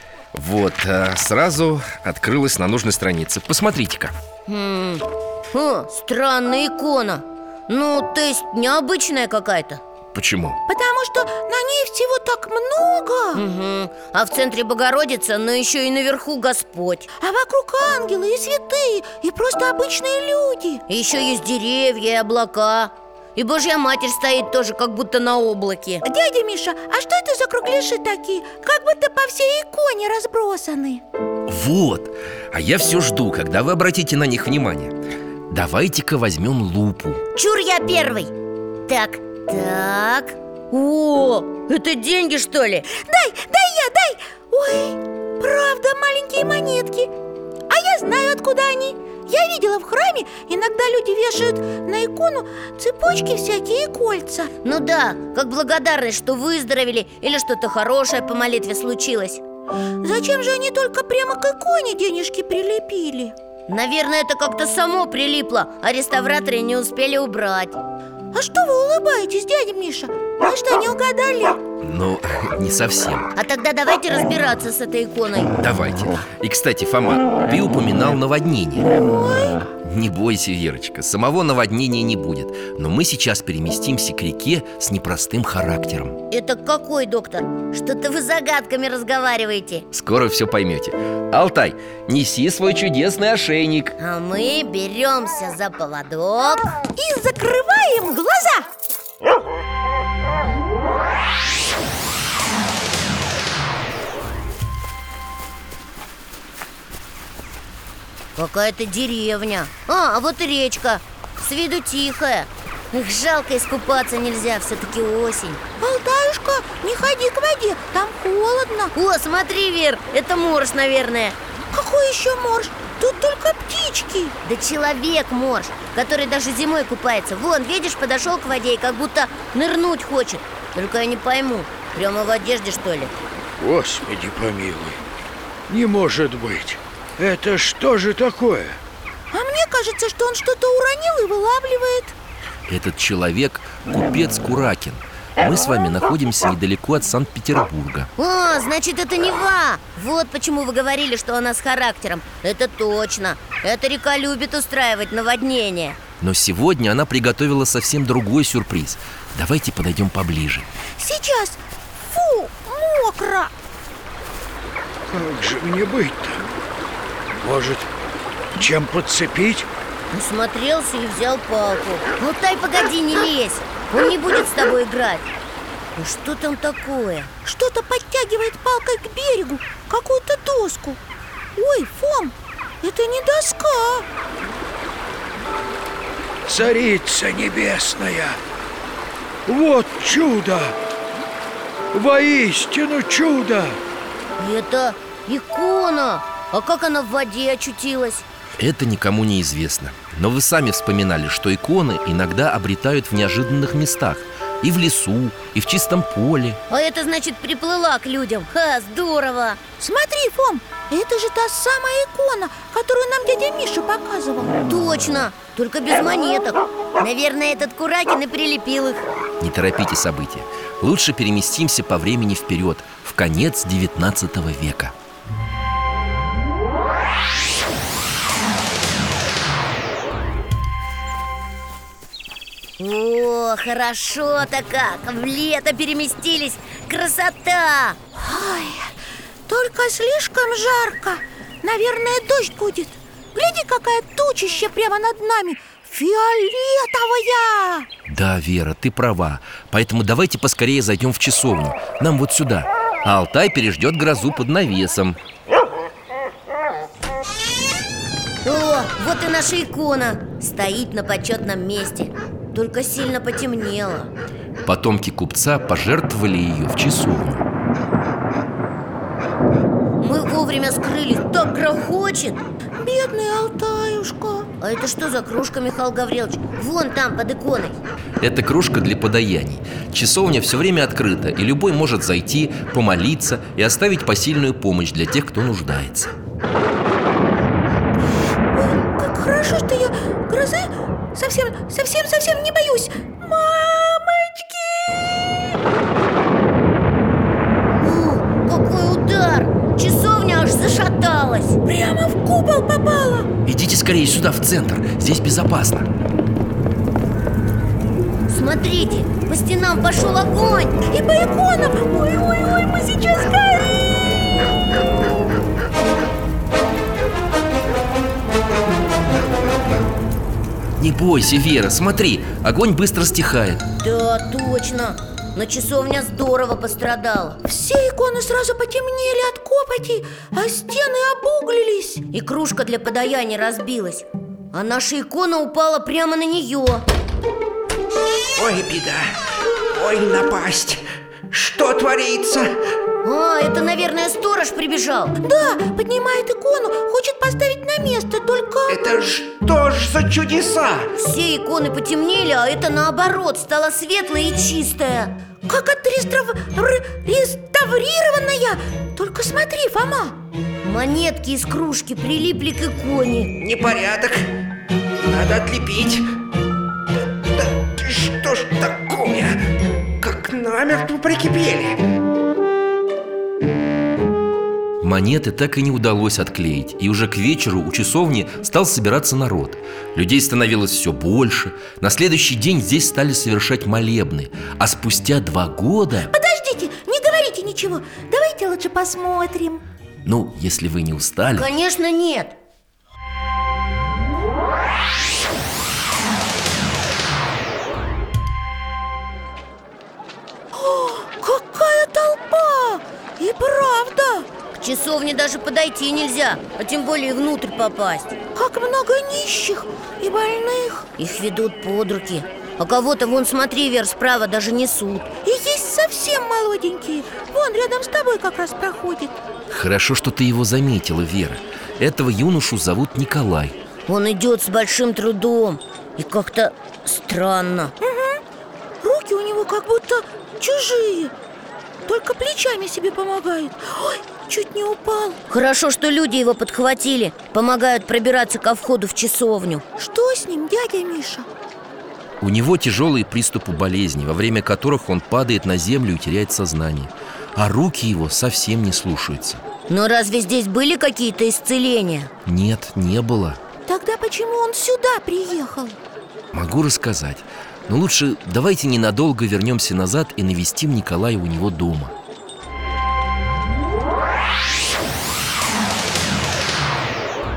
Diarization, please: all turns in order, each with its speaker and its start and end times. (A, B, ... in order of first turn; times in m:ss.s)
0:00.3-0:04.2 A
0:04.5-0:09.8 B
0:10.1-0:10.6 A
0:10.7-0:13.4 C
0:13.3-0:17.1 B
0:17.2-0:20.8 C
0:20.9-0:26.0 B
0:26.0-0:31.0 C
0:31.5-0:34.9 A
0:35.5-0:37.2 A
0:37.3-0:38.3 B
0:38.9-0:42.9 B
0:42.9-0:47.1 C
0:47.7-0:54.5 C
0:54.6-0:59.4 B
1:00.0-1:03.3 C
1:03.7-1:07.8 B
1:08.3-1:11.6 C
1:11.8-1:13.3 A
1:13.4-1:15.5 B
1:15.6-1:18.9 A
1:19.0-1:19.6 C
1:19.8-1:26.2 A
1:26.3-1:29.8 B
1:29.9-1:34.0 A
1:34.0-1:36.7 B
1:37.0-1:38.6 C
1:48.4-1:55.6 B
1:55.8-1:58.9 C
1:58.9-2:01.4 B
2:01.7-2:04.3 C
2:04.4-2:13.2 B
2:13.6-2:15.0 D
2:15.7-2:18.8 D
2:19.3-2:22.1 C
2:22.7-2:28.1 A
2:28.2-2:36.0 B
2:36.2-2:40.7 A
2:41.0-2:43.5 C
2:45.1-2:46.4 D
2:47.4-2:47.9 D
2:48.5-2:49.7 D
2:50.1-2:55.3 B
2:56.0-2:57.3 B
2:57.4-3:01.0 C
3:01.6-3:04.0 C
3:06.4-3:08.4 D
3:09.4-3:10.8 D
3:11.9-3:13.8 D
3:14.4-3:18.2 B
3:18.6-3:26.6 A
3:26.7-3:29.6 B
3:29.8-3:34.6 C
3:34.6-3:39.0 B
3:39.4-3:44.9 A
3:52.8-3:58.0 B
3:58.1-3:58.9 C
3:59.5-4:07.9 C
4:08.1-4:15.2 A
4:18.4-4:24.1 B
4:24.6-4:27.4 A
4:30.0-4:32.4 B
4:32.8-4:34.5 C
4:34.6-4:37.8 B
4:38.2-4:46.1 A
4:48.5-4:55.6 C
4:57.8-5:01.6 B
5:01.6-5:03.3 C
5:03.4-5:05.9 A
5:08.3-5:10.8 B
5:10.9-5:13.8 C
5:20.8-5:23.6 A
5:23.8-5:27.4 B
5:27.4-5:32.0 C
5:32.1-5:36.8 B
5:38.3-5:39.2 E
5:39.7-5:42.5 E
5:43.0-5:45.2 B
5:45.2-5:48.8 C
5:48.7-5:50.9 E
5:51.0-5:55.1 B
5:55.5-6:00.2 C
6:00.6-6:03.3 B
6:03.4-6:04.3 E
6:05.0-6:06.0 E
6:07.2-6:09.4 E
6:10.0-6:11.8 E
6:14.8-6:26.1 A
6:26.1-6:29.6 C
6:30.0-6:31.5 A
6:31.3-6:32.4 B
6:40.5-6:44.3 C
6:44.5-6:48.2 B
6:48.3-6:50.9 C
6:51.0-6:55.1 B
6:55.2-6:59.1 C
6:59.5-7:03.6 A
7:03.9-7:07.7 B
7:07.8-7:08.2 C
7:08.8-7:11.1 C
7:11.8-7:15.2 C
7:15.3-7:19.6 B
7:19.8-7:21.3 C
7:22.2-7:29.4 A
7:29.7-7:32.1 B
7:32.2-7:33.4 A
7:33.7-7:35.8 C
7:36.3-7:41.9 A